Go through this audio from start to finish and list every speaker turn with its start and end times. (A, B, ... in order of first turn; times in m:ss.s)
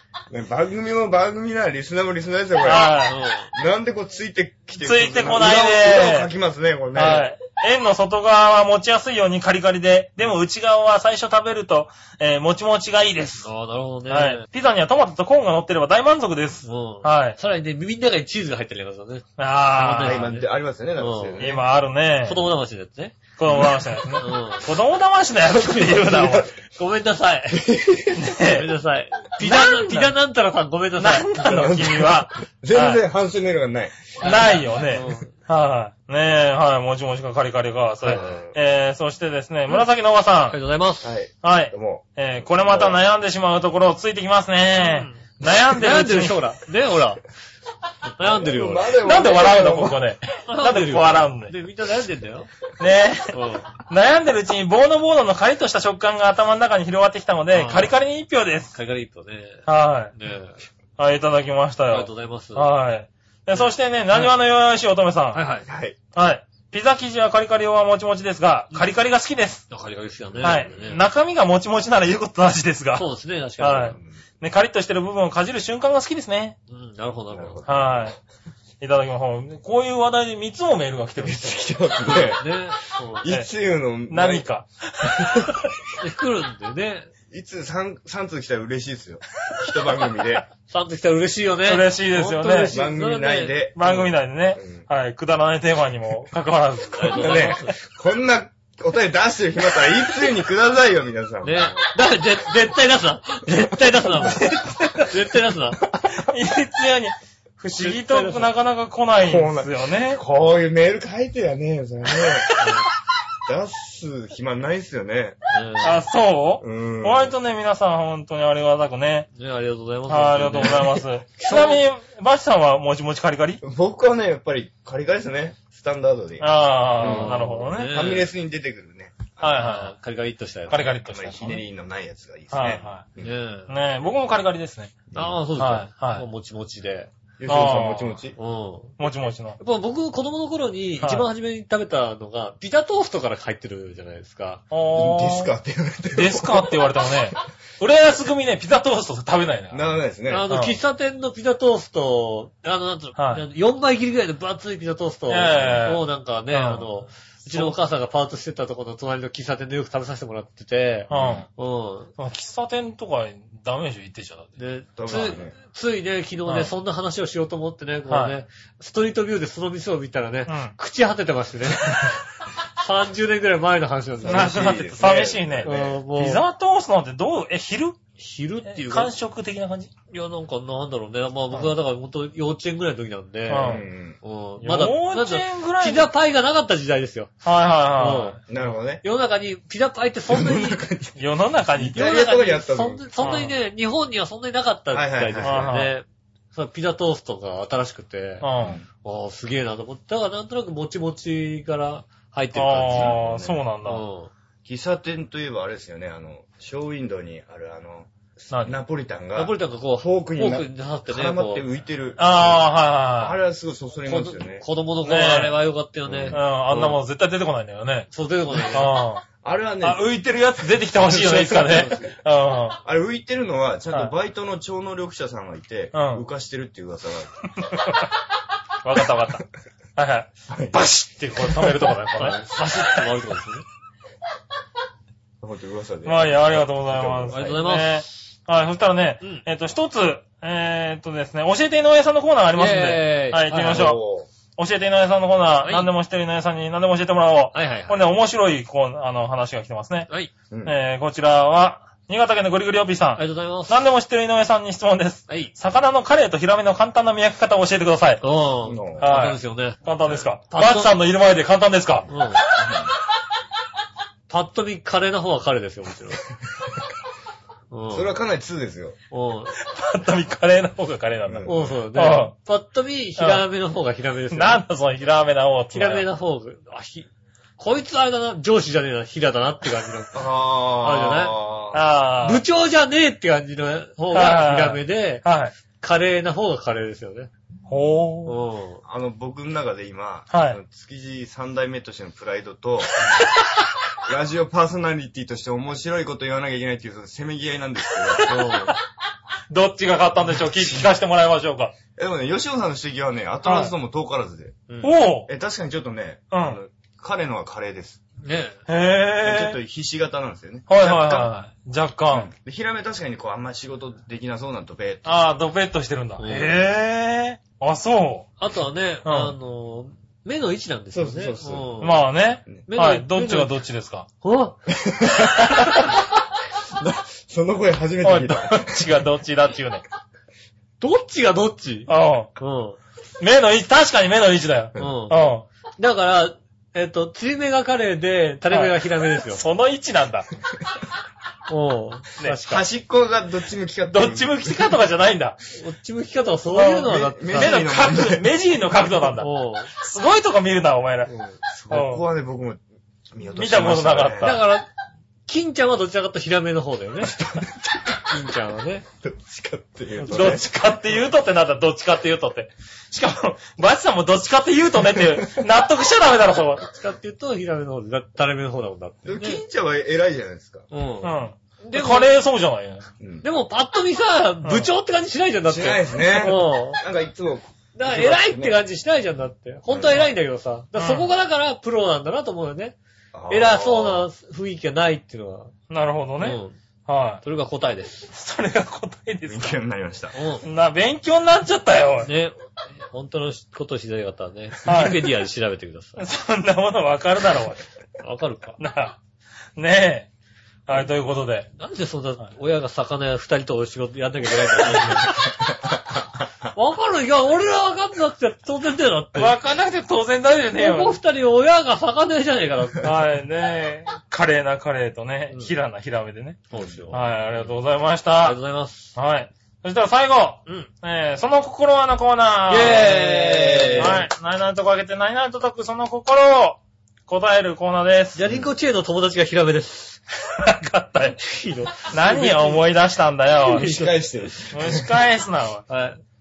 0:00.3-0:07.3 A
0:02.6-0:03.2 B
0:03.0-0:03.5 C
0:04.8-0:06.3 B
0:06.9-0:13.5 B
0:13.4-0:14.4 C
0:14.1-0:17.4 B
0:16.6-0:21.4 C
0:19.4-0:20.3 B
0:20.0-0:21.6 A
0:21.4-0:22.5 B
0:22.2-0:24.7 C
0:23.4-0:26.5 B
0:25.5-0:27.7 C
0:27.5-0:28.2 A
0:28.2-0:28.7 B
0:28.4-0:31.6 C
0:29.4-0:30.1 B
0:31.0-0:33.0 B
0:31.4-0:34.2 A
0:34.2-0:35.3 C
0:34.2-0:40.6 B
0:38.0-0:38.5 A
0:40.5-0:41.1 C
0:41.0-0:43.0 A
0:41.4-0:46.4 B
0:44.8-0:47.2 C
0:48.2-0:49.0 C
0:48.2-0:50.0 A
0:49.0-0:51.5 B
0:50.5-0:52.5 C
0:52.8-0:58.7 B
0:53.3-0:53.7 C
0:57.5-0:57.9 C
0:58.7-1:00.6 C
0:59.7-1:00.1 B
1:01.0-1:05.4 B
1:01.9-1:02.7 C
1:05.3-1:05.7 C
1:05.6-1:06.0 A
1:06.1-1:09.6 B
1:09.7-1:11.0 C
1:10.4-1:13.0 B
1:13.0-1:14.0 C
1:13.6-1:16.6 B
1:16.7-1:17.6 C
1:17.3-1:18.2 A
1:17.6-1:18.2 B
1:18.8-1:22.2 B
1:21.2-1:22.6 A
1:22.1-1:23.2 C
1:23.2-1:24.4 A
1:24.1-1:25.7 B
1:25.0-1:25.9 A
1:26.0-1:27.1 C
1:27.3-1:30.4 A
1:30.7-1:33.7 C
1:31.6-1:32.8 B
1:32.7-1:34.8 A
1:33.7-1:37.6 B
1:36.9-1:37.8 C
1:37.2-1:41.9 A
1:41.4-1:44.5 C
1:44.2-1:45.1 B
1:45.1-1:45.8 C
1:45.8-1:46.2 A
1:46.1-1:50.2 B
1:47.8-1:48.5 C
1:49.2-1:52.7 A
1:52.3-1:52.6 B
1:52.6-1:52.8 C
1:53.4-1:55.4 A
1:55.5-1:56.0 C
1:55.8-1:59.3 B
1:56.6-1:57.3 A
1:59.4-2:01.0 C
2:00.1-2:03.6 B
2:03.6-2:09.7 A
2:06.4-2:08.2 B
2:07.0-2:08.3 C
2:09.4-2:09.9 B
2:09.6-2:11.0 C
2:10.7-2:11.6 B
2:11.1-2:13.3 A
2:12.5-2:13.0 B
2:13.2-2:13.7 C
2:13.7-2:16.3 B
2:15.2-2:17.1 C
2:17.4-2:18.4 A
2:17.5-2:18.2 B
2:18.4-2:18.9 C
2:19.0-2:19.6 B
2:19.6-2:24.6 C
2:21.0-2:21.3 B
2:24.7-2:25.5 B
2:24.9-2:26.8 A
2:26.2-2:29.8 B
2:29.7-2:30.5 A
2:30.3-2:42.1 C
2:30.5-2:30.8 B
2:33.2-2:33.4 B
2:35.3-2:37.8 B
2:41.1-2:41.5 B
2:41.1-2:41.4 A
2:42.2-2:44.5 B
2:44.6-2:52.2 C
2:45.0-2:45.6 A
2:46.5-2:46.7 B
2:48.1-2:48.4 B
2:50.5-2:50.7 B
2:52.8-2:54.9 C
2:54.2-2:56.0 A
2:54.2-2:58.0 B
2:55.6-2:56.4 C
2:58.2-2:59.1 C
2:58.6-2:59.9 B
3:00.1-3:07.3 C
3:03.5-3:03.9 B
3:03.5-3:04.2 A
3:04.6-3:06.1 B
3:07.4-3:08.4 B
3:08.0-3:08.4 C
3:08.5-3:09.0 A
3:09.0-3:10.8 C
3:10.3-3:13.3 A
3:11.2-3:12.0 B
3:11.9-3:18.5 C
3:13.2-3:13.5 B
3:14.9-3:15.9 A
3:15.4-3:15.9 B
3:18.4-3:18.8 B
3:18.6-3:18.9 A
3:19.0-3:23.2 C
3:22.6-3:24.0 B
3:22.6-3:23.6 A
3:23.8-3:24.3 C
3:24.6-3:34.6 A
3:28.5-3:28.8 B
3:29.4-3:31.6 C
3:32.2-3:33.4 B
3:34.0-3:37.0 C
3:35.0-3:35.6 B
3:36.1-3:36.4 A
3:36.3-3:38.1 B
3:38.1-3:38.9 C
3:38.7-3:39.2 B
3:39.4-3:42.2 A
3:39.8-3:42.8 B
3:42.8-3:47.6 A
3:45.9-3:46.3 B
3:47.6-3:48.1 B
3:48.8-3:49.4 B
3:50.0-3:53.0 B
3:50.5-3:50.8 A
3:51.4-3:51.9 A
3:52.2-3:53.6 C
3:55.4-3:57.6 A
3:56.0-4:04.0 B
3:57.3-3:58.0 C
4:02.6-4:03.9 C
4:03.6-4:04.3 A
4:04.6-4:10.1 B
4:05.6-4:05.9 C
4:07.5-4:08.0 C
4:10.6-4:18.2 B
4:13.2-4:13.8 C
4:15.3-4:15.5 C
4:18.2-4:20.9 C
4:18.6-4:19.2 A
4:19.0-4:22.7 B
4:22.1-4:22.4 C
4:22.6-4:22.9 A
4:24.3-4:26.2 C
4:27.7-4:28.2 C
4:27.9-4:29.0 A
4:29.1-4:29.6 C
4:29.6-4:32.3 B
4:31.3-4:31.8 A
4:31.5-4:34.6 C
4:33.2-4:33.4 B
4:34.3-4:36.1 B
4:35.7-4:41.4 C
4:40.1-4:41.8 A
4:41.7-4:42.4 B
4:42.2-4:45.2 C
4:44.1-4:45.6 B
4:45.8-4:47.3 C
4:47.7-4:48.4 B
4:48.3-4:48.8 C
4:48.8-4:53.1 A
4:50.3-4:50.6 B
4:54.1-4:58.3 A
4:58.1-4:58.8 B
4:58.2-4:58.7 C
4:59.5-5:01.7 B
5:01.9-5:08.0 A
5:03.4-5:03.7 B
5:04.7-5:05.0 C
5:04.8-5:05.3 B
5:06.3-5:06.6 B
5:08.2-5:08.6 C
5:08.7-5:09.6 B
5:09.2-5:11.4 A
5:10.7-5:12.3 B
5:12.1-5:15.1 A
5:15.0-5:18.3 B
5:16.2-5:16.6 C
5:18.4-5:22.1 C
5:19.0-5:19.4 B
5:20.9-5:21.8 A
5:21.8-5:24.1 B
5:22.7-5:23.5 C
5:24.2-5:24.6 C
5:24.7-5:26.0 A
5:25.5-5:25.9 B
5:26.7-5:28.9 A
5:28.0-5:29.8 B
5:30.8-5:32.8 C
5:31.9-5:32.3 B
5:33.2-5:35.4 B
5:34.8-5:35.2 C
5:35.8-5:39.4 C
5:38.5-5:40.3 B
5:41.5-5:42.7 C
5:42.4-5:44.7 A
5:43.9-5:45.4 B
5:45.5-5:47.6 C
5:46.5-5:51.1 B
5:46.6-5:48.2 A
5:49.2-5:49.7 C
5:51.1-5:52.6 A
5:51.7-5:52.0 B
5:53.1-5:54.4 A
5:53.3-5:54.4 B
5:54.2-5:54.7 C
5:55.3-5:57.2 C
5:57.0-5:58.0 A
5:58.1-5:58.8 C
5:59.0-6:00.4 A
6:00.0-6:06.6 B
6:05.0-6:05.4 A
6:06.6-6:09.4 C
6:09.1-6:10.6 A
6:10.7-6:12.2 C
6:11.0-6:12.8 B
6:13.0-6:13.3 A
6:13.2-6:16.8 C
6:14.4-6:14.7 B
6:15.4-6:18.6 A
6:17.7-6:22.8 C
6:19.7-6:20.1 A
6:20.8-6:21.1 B
6:23.1-6:24.1 A
6:23.3-6:25.5 C
6:25.7-6:27.2 B
6:26.2-6:26.6 C
6:27.2-6:28.1 C
6:28.1-6:29.6 B
6:29.3-6:30.2 A
6:30.1-6:30.4 C
6:30.4-6:32.1 B
6:32.0-6:36.1 C
6:34.6-6:35.1 B
6:36.0-6:37.6 B
6:38.0-6:38.6 C
6:38.6-6:39.0 B
6:39.6-6:40.1 B
6:40.7-6:41.5 B
6:41.6-6:45.3 C
6:44.7-6:45.1 B
6:44.8-6:45.3 A
6:46.6-6:49.4 C
6:49.2-6:51.0 B
6:50.6-6:52.9 C
6:52.8-6:58.4 B
6:56.5-6:57.5 C
6:56.5-6:57.0 A
6:58.2-6:58.9 C
6:59.0-7:03.0 B
7:02.5-7:04.1 C
7:02.6-7:04.0 A
7:03.7-7:08.2 B
7:08.2-7:10.0 C
7:10.3-7:11.2 B
7:11.2-7:12.6 C
7:11.9-7:13.8 B
7:13.4-7:14.0 C
7:13.5-7:14.9 A
7:14.5-7:15.6 B
7:15.7-7:16.0 C